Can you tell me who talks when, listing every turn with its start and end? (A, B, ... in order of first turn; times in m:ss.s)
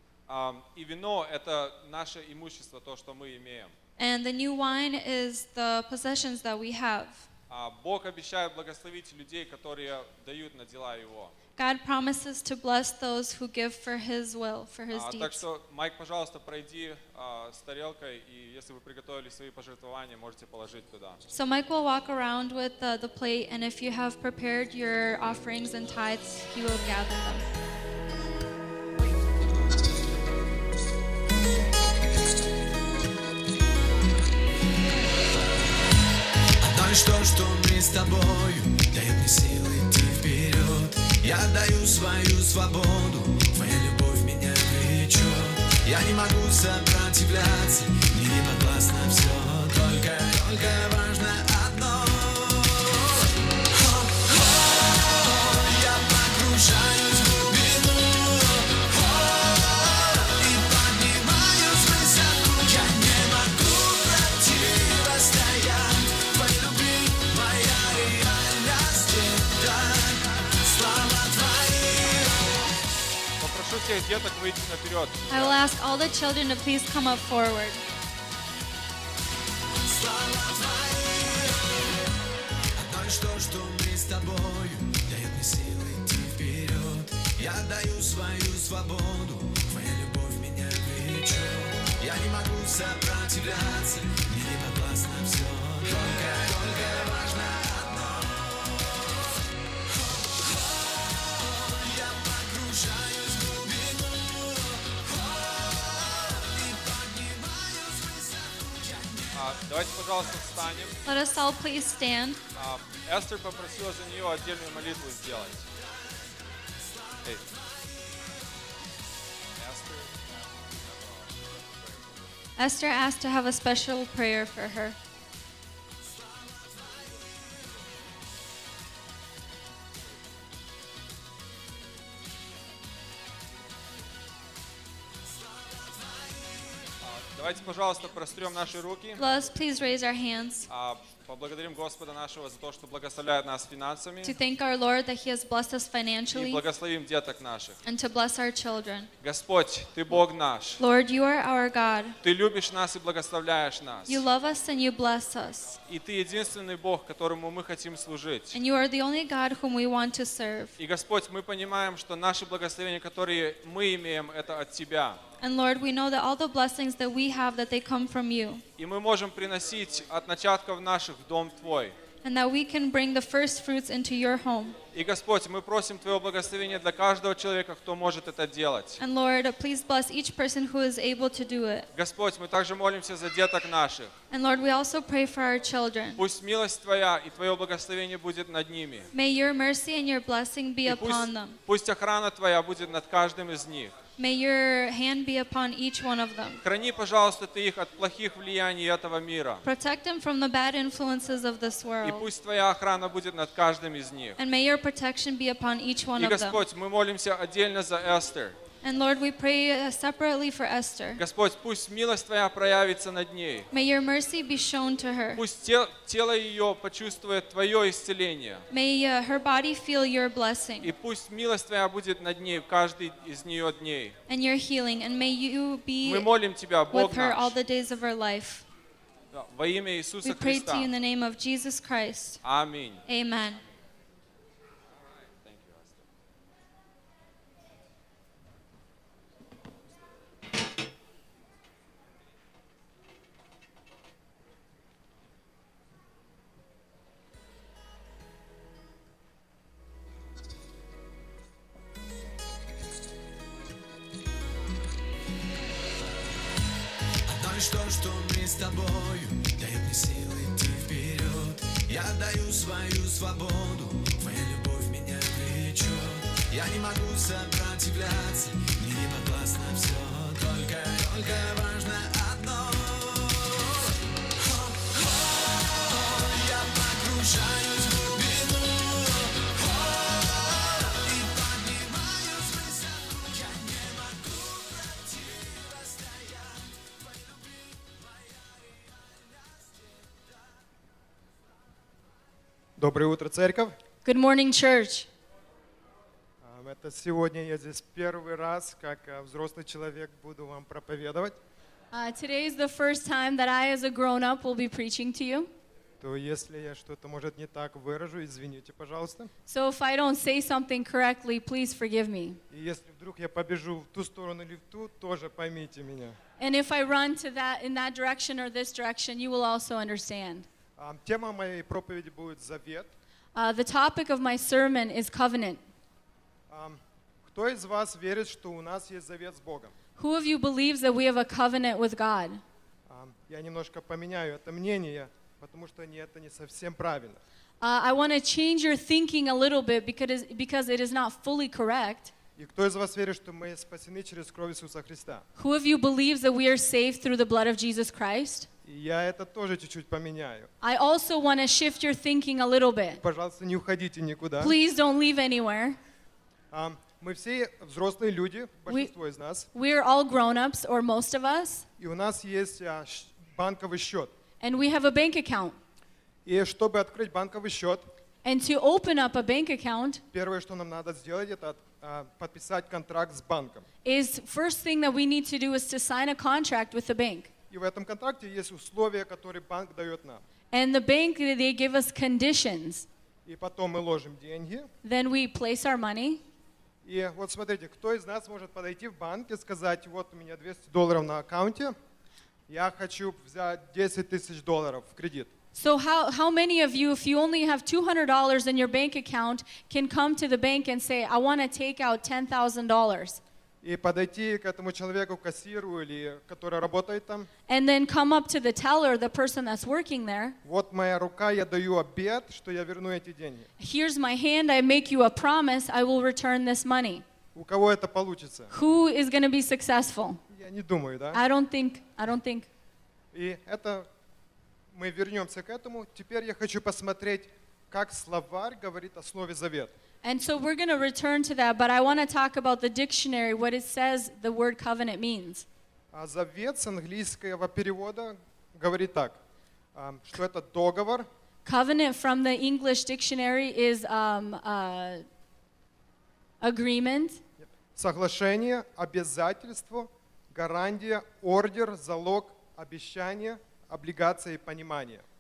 0:00.3-0:03.7 A
0:04.0-0:07.3 B
0:07.5-0:11.4 A
0:11.6-0:15.4 B
0:14.9-0:21.2 A
0:21.3-0:27.4 B
0:36.6-1:12.4 C
1:13.4-1:15.6 A
1:15.3-1:17.8 B
1:19.8-1:21.8 C
1:22.8-1:39.2 C
1:40.0-1:49.3 C
1:49.3-1:51.0 A
1:51.1-1:52.4 B
1:52.6-1:55.7 A
1:59.6-2:02.3 A
2:02.6-2:05.0 B
2:17.0-2:19.2 A
2:19.2-2:20.7 B
2:20.7-2:24.4 A
2:24.2-2:26.6 B
2:26.3-2:27.8 A
2:27.8-2:29.1 B
2:29.2-2:30.8 A
2:30.8-2:32.2 B
2:32.2-2:34.2 A
2:34.1-2:35.8 B
2:35.9-2:38.6 A
2:38.5-2:40.8 B
2:40.8-2:45.2 A
2:45.4-2:48.6 B
2:48.8-2:52.0 A
2:52.2-2:54.8 B
2:54.9-2:59.0 A
2:59.0-3:01.9 B
3:01.9-3:04.1 A
3:04.3-3:06.2 B
3:06.2-3:09.1 A
3:09.1-3:11.6 B
3:10.8-3:14.0 A
3:14.2-3:16.6 B
3:16.6-3:19.6 A
3:19.6-3:22.3 B
3:22.0-3:24.4 A
3:24.4-3:26.6 B
3:26.2-3:28.6 A
3:28.8-3:31.2 B
3:31.2-3:33.7 A
3:33.7-3:35.4 B
3:35.4-3:38.6 A
3:38.7-3:40.9 B
3:40.8-3:44.2 A
3:44.3-3:46.3 B
3:46.0-3:47.6 A
3:46.9-3:48.7 B
3:49.3-3:50.9 A
3:50.2-3:52.4 B
3:52.4-3:53.0 A
3:53.1-3:53.6 B
3:55.4-3:56.0 A
4:17.3-4:50.2 C
4:52.8-4:53.8 D
4:54.0-4:55.1 E
4:56.4-5:01.4 D
5:01.9-5:05.5 E
5:06.0-5:09.3 D
5:09.5-5:12.4 E
5:12.5-5:16.2 D
5:16.4-5:20.5 E
5:20.8-5:22.9 D
5:23.3-5:25.6 E
5:26.5-5:29.7 D
5:30.0-5:32.4 E
5:32.9-5:37.2 D
5:37.6-5:42.1 E
5:42.4-5:45.3 D
5:45.4-5:48.5 E
5:48.7-5:50.5 D
5:50.6-5:53.0 E
5:53.0-5:54.5 D
5:54.4-5:55.8 E
5:56.5-5:59.5 D
5:58.7-5:58.9 E
5:59.5-6:01.7 E
6:01.8-6:04.1 D
6:04.4-6:05.6 E
6:06.3-6:07.9 D
6:08.2-6:10.0 E
6:10.1-6:13.7 D
6:13.8-6:17.3 E
6:17.5-6:20.2 D
6:20.5-6:22.9 E
6:23.3-6:24.7 D
6:24.8-6:26.2 E
6:26.8-6:31.8 D
6:32.5-6:35.3 D
6:35.6-6:43.2 E
6:43.6-6:47.3 D
6:47.5-6:50.4 E
6:50.4-6:53.5 D
6:53.6-6:57.0 E
6:57.4-6:58.5 D
6:58.5-7:00.2 E
7:00.3-7:01.2 D
7:01.1-7:02.5 E
7:03.1-7:03.9 D
7:04.7-7:09.7 D
7:10.0-7:15.5 E
7:15.9-7:19.2 D
7:19.8-7:21.1 D
7:21.4-7:25.0 E
7:26.4-7:27.2 E
7:27.4-7:35.0 D